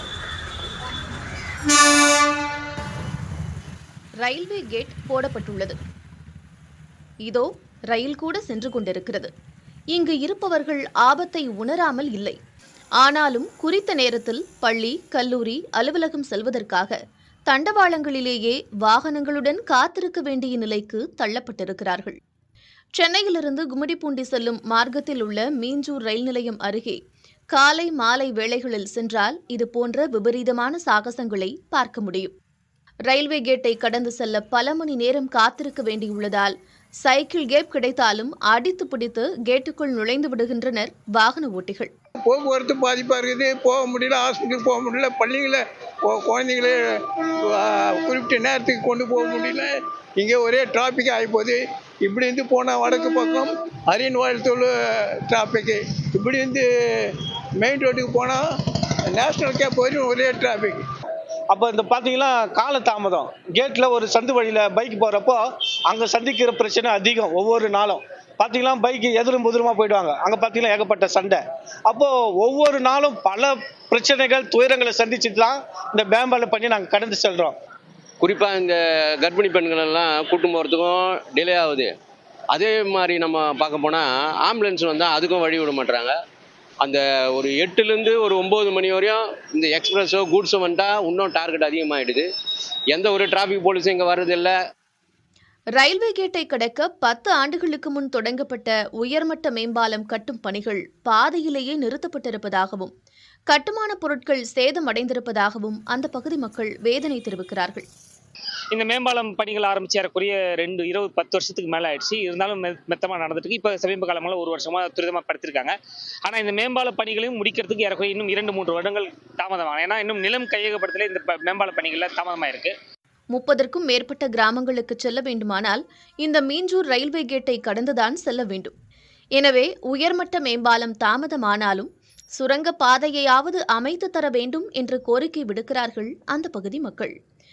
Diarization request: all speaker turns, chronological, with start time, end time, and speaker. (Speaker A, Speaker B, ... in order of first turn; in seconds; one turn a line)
Speaker A: 4.2-5.8
Speaker A: 7.2-9.3
Speaker A: 9.9-12.4
Speaker A: 13.0-17.0
Speaker A: 17.5-22.2
Speaker A: 23.0-27.0
Speaker A: 27.5-32.3
Speaker A: 33.1-41.9
Speaker B: 42.3-46.8
Speaker B: 47.5-51.6
Speaker B: 52.1-54.4
Speaker B: 55.3-56.6
Speaker B: 57.6-58.4
Speaker B: 59.2-60.7
Speaker C: 61.5-77.5
Speaker D: 78.2-81.9
Speaker D: 82.5-86.1
Speaker D: 86.8-92.3
Speaker D: 92.9-94.5
Speaker A: 95.8-102.9
Speaker A: 103.5-107.8
Speaker E: 108.7-115.7
Speaker E: 116.2-122.7
Speaker A: 123.3-128.7
Speaker A: 129.4-137.1